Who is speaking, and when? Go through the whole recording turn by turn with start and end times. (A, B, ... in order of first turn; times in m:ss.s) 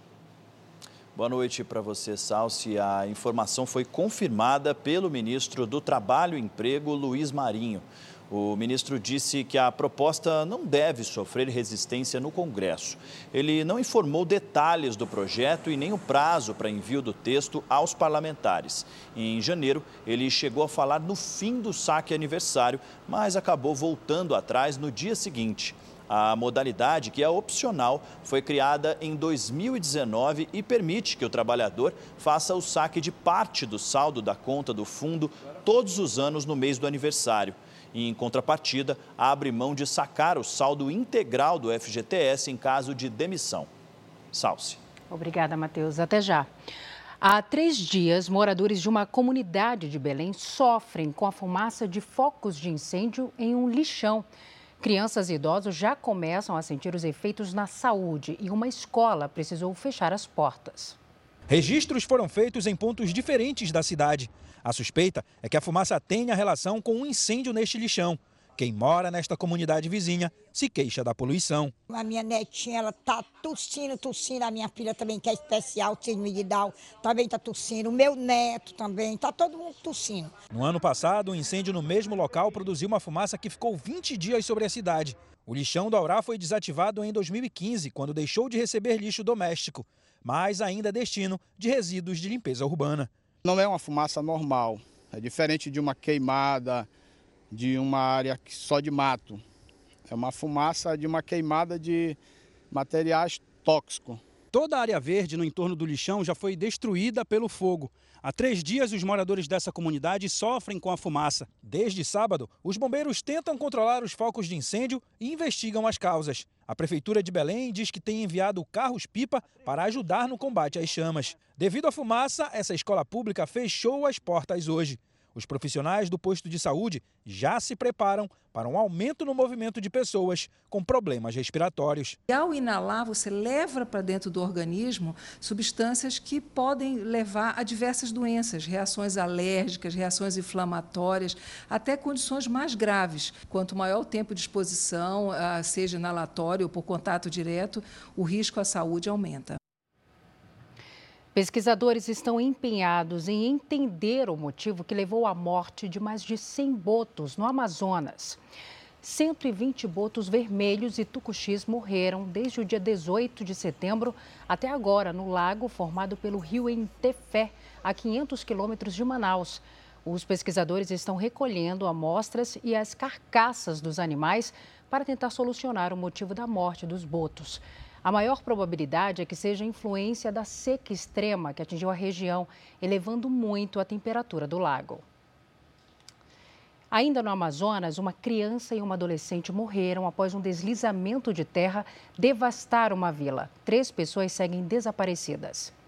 0:01.1-0:43.7 A
0:44.3-0:44.8 A
0:45.1-0:46.5 B
0:47.2-0:54.3 B
0:54.8-1:01.0 B
1:01.5-1:11.7 C
1:11.9-1:20.3 D
1:20.5-1:33.1 C
1:33.4-1:36.9 E
1:37.5-1:39.4 E
1:40.1-1:42.2 E
1:42.7-1:44.2 E
1:46.5-1:47.6 C
1:48.5-1:49.2 C
1:51.5-2:12.2 C
2:12.3-2:29.6 F
2:31.3-2:38.4 B
2:39.0-3:05.0 B
3:06.9-3:15.7 B